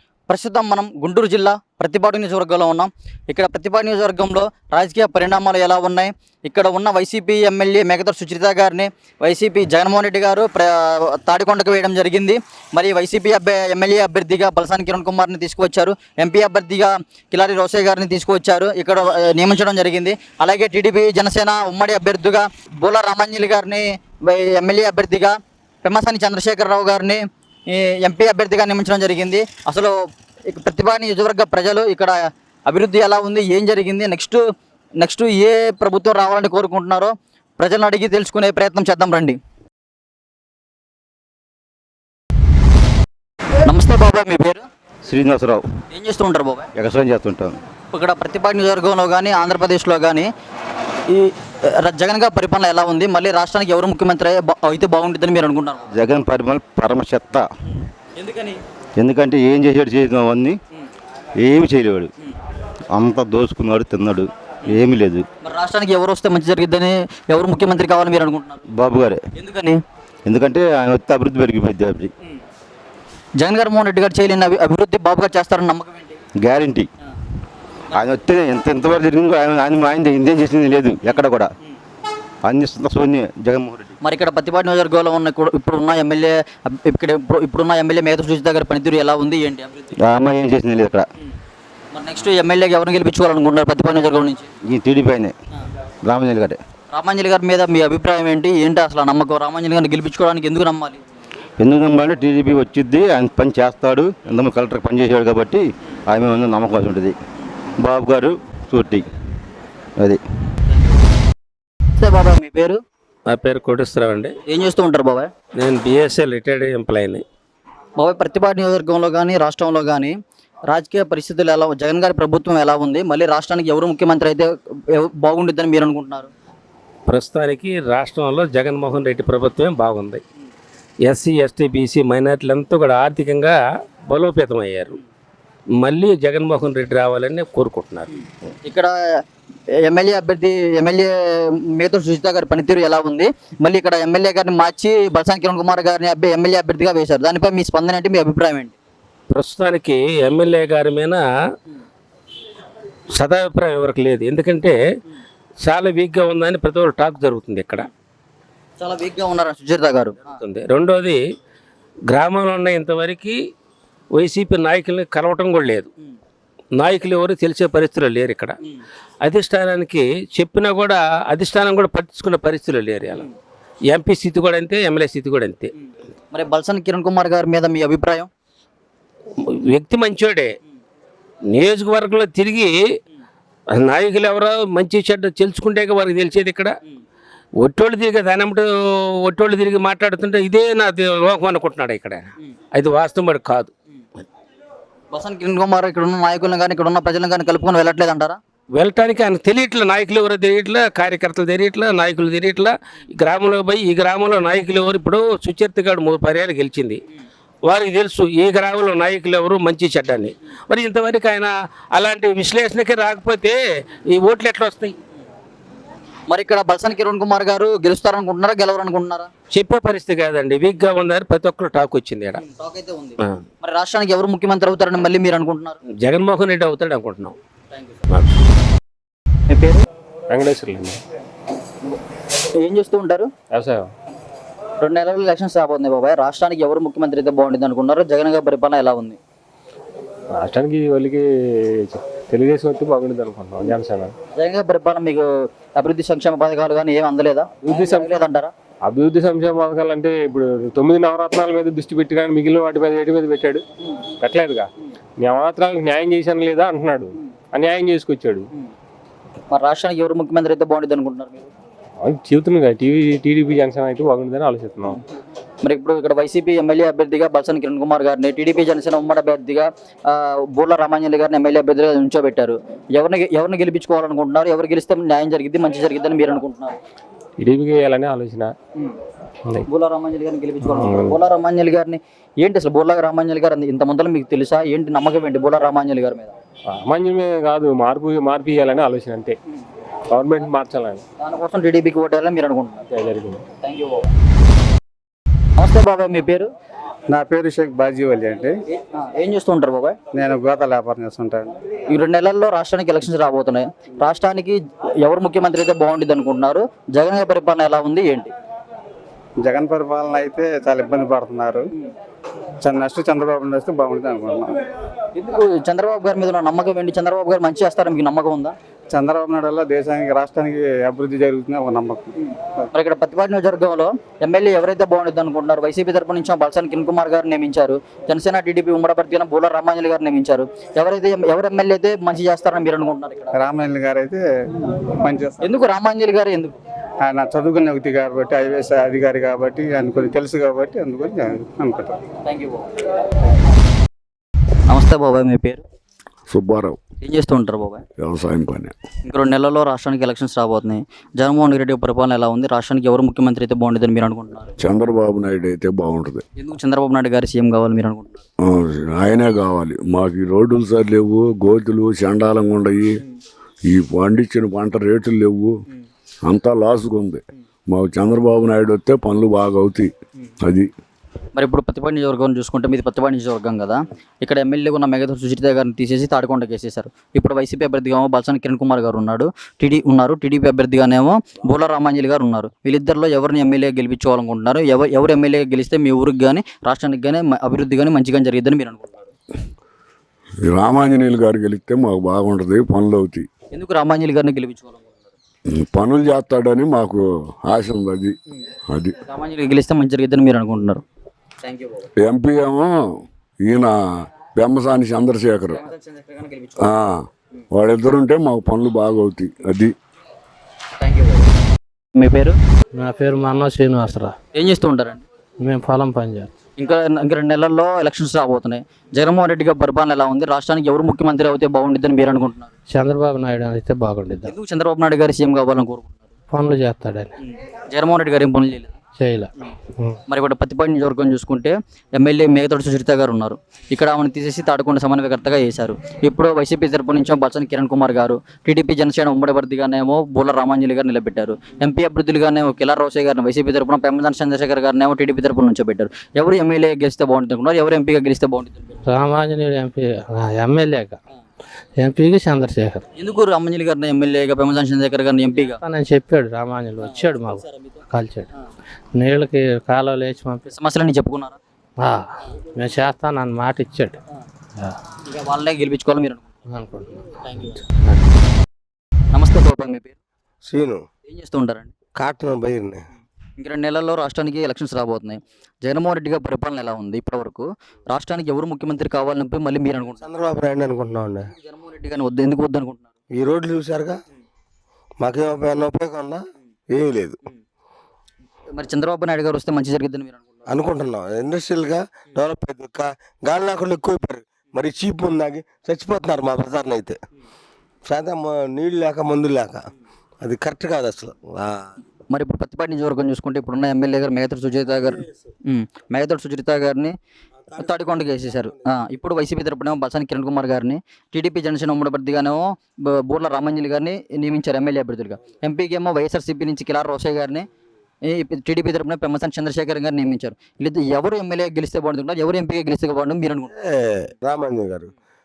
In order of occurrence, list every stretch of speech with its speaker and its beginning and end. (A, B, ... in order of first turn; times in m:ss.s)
0:00.3-0:34.4 A
0:35.0-0:39.4 A
0:43.7-0:44.6 A
0:45.1-0:45.6 B
0:45.9-0:46.7 A
0:46.8-0:47.6 B
0:47.9-0:50.3 A
0:51.1-0:55.9 A
0:55.9-0:57.5 B
0:58.2-0:58.6 A
0:59.0-1:00.6 B
1:01.4-1:02.1 B
1:03.0-1:05.3 B
1:05.4-1:08.6 A
1:08.8-1:09.2 B
1:09.4-1:09.8 A
1:10.3-1:12.1 B
1:13.4-1:16.2 A
1:16.4-1:16.9 B
1:17.9-1:21.5 B
1:22.5-1:23.9 B
1:24.0-1:29.9 A
1:30.0-1:31.1 B
1:31.9-1:34.5 A
1:34.7-1:35.3 B
1:36.0-1:36.6 B
1:36.9-1:41.0 A
1:41.6-1:47.2 B
1:47.8-1:49.0 B
1:52.0-1:52.8 A
1:53.3-1:54.3 C
1:54.5-1:55.3 A
1:55.6-1:57.2 C
1:58.0-2:00.2 A
2:00.7-2:06.3 A
2:07.1-2:10.2 C
2:11.0-2:15.0 C
2:15.8-2:18.1 C
2:18.6-2:18.9 A
2:19.8-2:28.8 A
2:29.3-2:31.2 C
2:33.2-2:34.8 C
2:35.6-2:37.9 C
2:38.8-2:40.2 A
2:40.3-2:41.2 C
2:42.1-2:43.4 C
2:44.2-2:45.9 C
2:46.8-2:48.6 C
2:49.2-2:53.2 C
2:53.9-2:55.7 C
2:56.3-2:58.3 A
2:59.4-3:00.5 C
3:01.5-3:02.8 C
3:03.8-3:06.7 C
3:07.6-3:13.7 C
3:15.1-3:18.4 A
3:18.7-3:27.0 C
3:27.7-3:33.6 C
3:34.1-3:35.0 C
3:36.3-3:39.3 A
3:39.5-3:42.4 C
3:42.6-3:45.8 A
3:46.0-3:47.4 C
3:49.5-3:49.8 A
3:50.3-3:51.0 D
3:52.6-3:53.3 A
3:53.5-3:53.9 D
3:54.8-3:59.2 A
4:00.4-4:01.3 D
4:01.8-4:04.1 D
4:04.4-4:08.5 A
4:07.7-4:08.2 D
4:08.9-4:13.6 D
4:14.2-4:14.7 D
4:15.2-4:18.5 D
4:19.5-4:21.5 A
4:22.0-4:25.0 D
4:25.6-4:36.8 A
4:37.4-4:38.5 D
4:39.7-4:46.3 A
4:40.7-4:41.2 D
4:46.7-4:49.4 D
4:50.1-4:51.0 D
4:51.2-4:52.9 A
4:52.9-4:53.4 D
4:53.6-4:54.1 A
4:55.6-4:56.5 A
4:57.1-4:58.6 E
4:58.7-5:00.0 A
5:00.1-5:01.5 E
5:01.9-5:08.3 A
5:09.4-5:11.7 E
5:12.6-5:14.6 E
5:15.2-5:18.6 A
5:18.9-5:22.1 E
5:22.7-5:33.3 A
5:33.4-5:35.6 E
5:35.4-5:36.6 A
5:37.0-5:42.0 E
5:42.3-5:42.7 A
5:44.7-5:45.6 A
5:46.3-5:46.8 F
5:47.0-5:47.8 A
5:48.0-5:48.8 F
5:49.0-5:54.5 A
5:54.6-5:56.2 F
5:56.4-5:58.2 A
5:58.4-6:02.9 F
6:03.7-6:05.5 F
6:06.2-6:10.7 F
6:11.4-6:29.1 A
6:30.5-6:33.3 F
6:33.5-6:34.9 A
6:35.5-6:38.2 F
6:38.7-6:38.9 F
6:39.1-6:40.8 A
6:41.5-6:41.8 A
6:42.0-6:42.8 F
6:43.4-6:43.8 F
6:44.3-6:45.6 F
6:45.5-6:46.6 A
6:46.6-6:49.8 F
6:50.8-6:51.2 A
6:52.0-6:52.4 A
6:52.8-6:54.2 G
6:54.3-6:55.0 A
6:55.4-6:56.3 G
6:56.6-7:02.5 A
7:02.7-7:04.3 G
7:04.3-7:05.9 A
7:06.3-7:07.1 G
7:07.7-7:08.8 A
7:09.0-7:09.3 G
7:10.1-7:28.7 A
7:28.9-7:31.0 G
7:31.8-7:32.8 G
7:33.0-7:35.6 A
7:35.6-7:38.3 G
7:39.0-7:40.5 G
7:40.5-7:41.4 A
7:42.6-7:44.0 G
7:45.1-7:46.3 A
7:46.5-7:46.9 G
7:49.1-7:50.0 A
7:50.5-7:50.8 H
7:51.1-7:51.7 A
7:52.0-7:52.8 H
7:53.4-8:00.0 A
8:00.0-8:01.3 H
8:01.4-8:02.9 A
8:03.2-8:04.0 H
8:05.0-8:07.2 H
8:08.6-8:10.4 A
8:10.5-8:17.0 H
8:17.9-8:19.6 H
8:20.2-8:21.7 H
8:22.1-8:27.0 A
8:27.4-8:27.7 H
8:27.6-8:37.5 A
8:38.1-8:43.5 A
8:43.5-8:44.9 H